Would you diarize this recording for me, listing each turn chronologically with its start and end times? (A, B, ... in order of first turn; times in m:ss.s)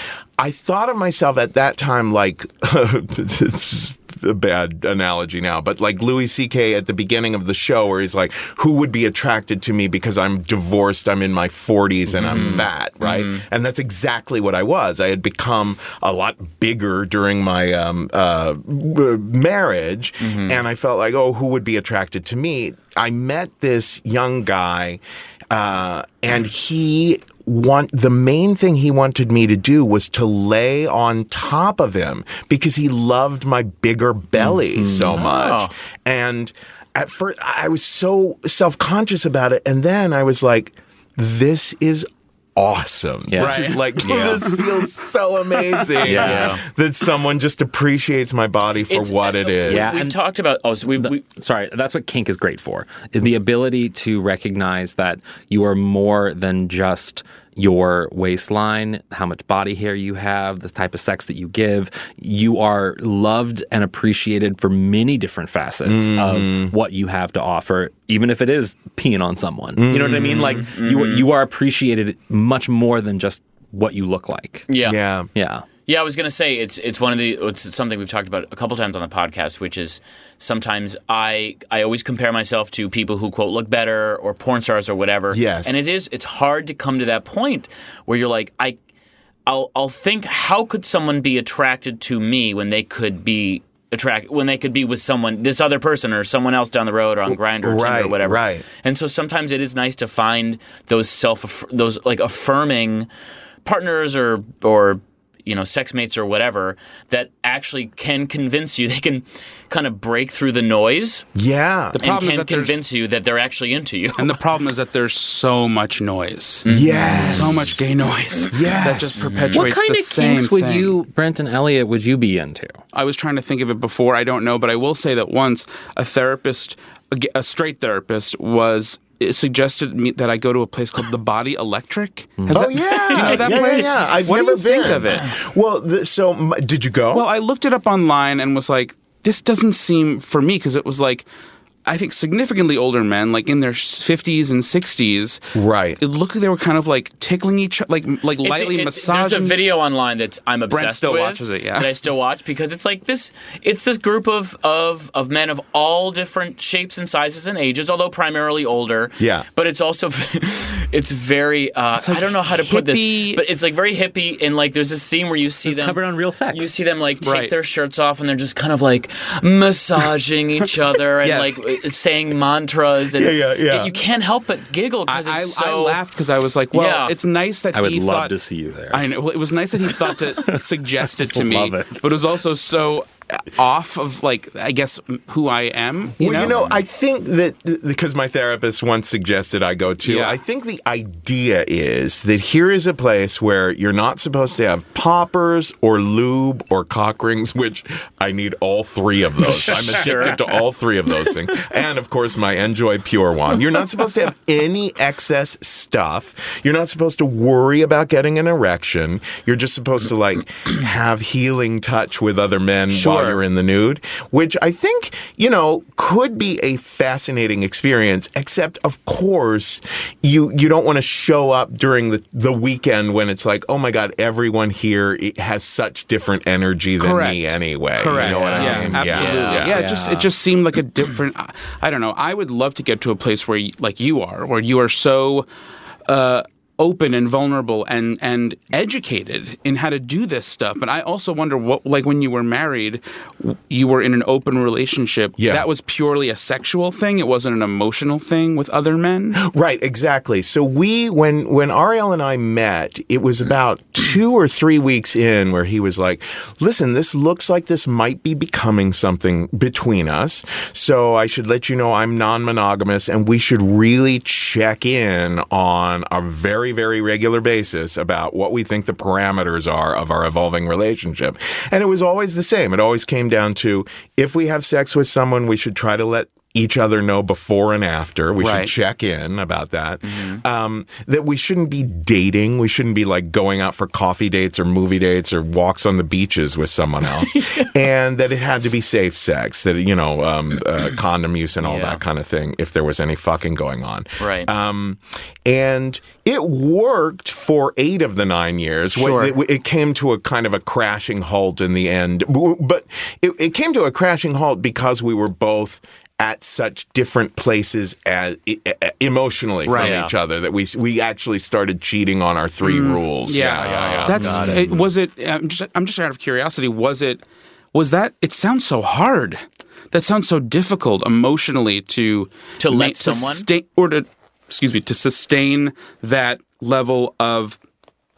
0:00.4-0:50.0 A
0:12.1-0:12.6 B
0:12.2-0:13.4 C
0:20.2-0:20.6 C
0:34.4-0:35.2 B
0:35.1-0:35.7 C
0:43.3-0:43.6 B
0:43.4-0:44.9 D
0:44.0-0:44.4 C
0:46.0-0:46.6 B
0:46.0-0:46.6 C
0:48.9-0:51.2 C
0:49.6-0:50.2 B
0:51.0-1:14.7 B
1:05.8-1:06.7 A
1:09.8-1:10.6 A
1:10.6-1:11.3 C
1:14.7-1:15.0 C
1:14.8-1:15.3 A
1:15.3-1:15.6 B
1:15.9-1:28.8 C
1:25.3-1:25.8 A
1:29.4-1:43.1 C
1:37.6-1:38.6 A
1:43.6-1:51.2 C
1:51.3-1:52.0 A
1:51.9-1:52.8 D
1:52.0-1:54.4 C
1:54.1-2:00.9 D
1:56.6-1:57.8 C
1:56.7-1:57.8 A
1:58.5-1:59.6 A
1:59.1-1:59.6 C
1:59.5-2:02.8 B
2:02.9-2:15.3 D
2:12.4-2:12.7 B
2:12.5-2:17.3 A
2:13.1-2:13.9 C
2:17.1-2:21.3 D
2:21.8-2:25.4 D
2:25.5-2:26.0 A
2:26.0-2:29.7 D
2:28.4-2:46.0 C
2:30.7-2:31.9 D
2:39.2-2:39.4 A
2:42.0-2:43.4 D
2:45.6-2:46.7 B
2:46.5-2:56.0 C
2:47.2-2:47.5 D
2:51.2-2:51.6 D
2:53.1-2:53.9 A
2:55.1-2:58.4 D
2:56.7-2:57.1 C
2:57.7-2:59.0 B
2:58.9-3:06.7 D
2:59.9-3:02.0 B
3:06.2-3:49.9 A
3:10.0-3:10.4 D
3:19.5-3:20.4 C
3:32.9-3:33.4 D
3:47.0-3:55.5 D
3:48.1-3:49.8 C
3:48.5-3:49.0 B
3:49.7-3:50.3 B
3:56.0-4:09.4 D
4:05.4-4:05.7 A
4:09.3-5:14.8 A
4:38.4-4:38.7 D
4:40.0-4:40.4 C
4:47.2-4:47.7 C
4:51.6-4:52.0 C
4:54.2-4:54.5 C
4:58.9-4:59.3 D
5:09.6-5:10.0 D
5:09.7-5:10.1 C
5:12.6-5:17.2 D
5:13.6-5:14.9 C
5:17.7-5:27.6 D
5:22.6-5:23.5 C